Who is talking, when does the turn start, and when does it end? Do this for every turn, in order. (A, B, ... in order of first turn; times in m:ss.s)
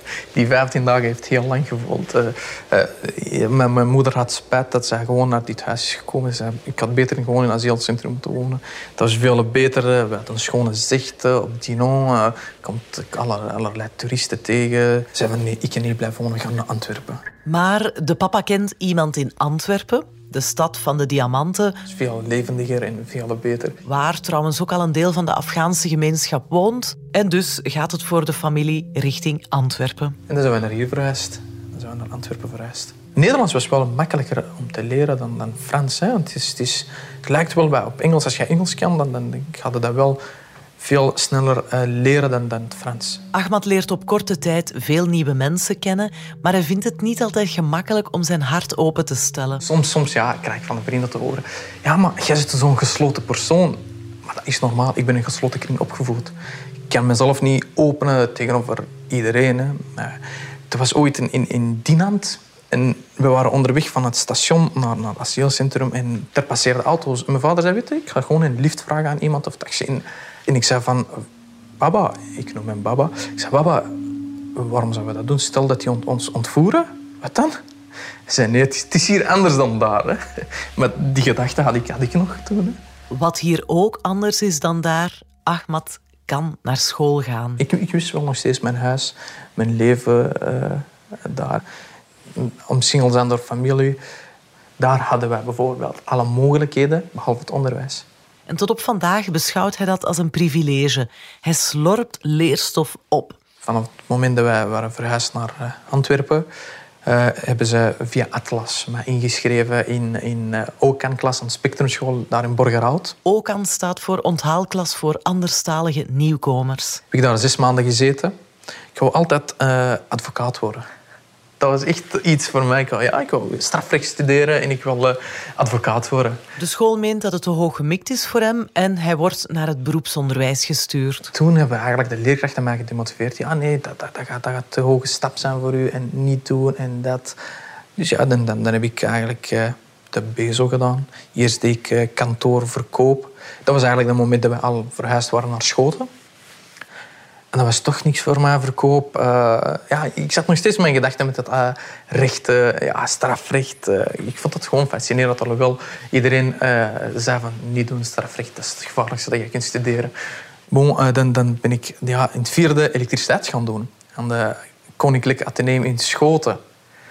0:00.3-0:17.2 A
0:17.4-0:21.8 B
0:21.9-0:23.8 A
0:23.8-0:30.2 B
0:30.3-0:40.2 A
0:40.8-0:43.2 A
0:43.3-0:49.6 B
0:49.6-0:56.3 A
0:56.9-1:11.2 A
1:11.8-1:14.0 A
1:14.5-1:17.6 A
1:18.3-1:22.8 A
1:23.1-1:27.6 B
1:27.6-1:31.6 A
1:32.3-1:34.0 A
1:34.8-1:38.1 A
1:38.5-1:43.4 B
1:43.6-1:46.5 A
1:47.0-1:53.2 A
1:53.2-1:57.0 B
1:57.1-1:58.3 A
1:58.9-2:00.9 A
2:01.6-2:06.4 A
2:06.6-2:11.3 B
2:11.3-2:17.4 A
2:18.0-2:26.1 A
2:27.5-2:40.1 A
2:40.7-2:46.6 A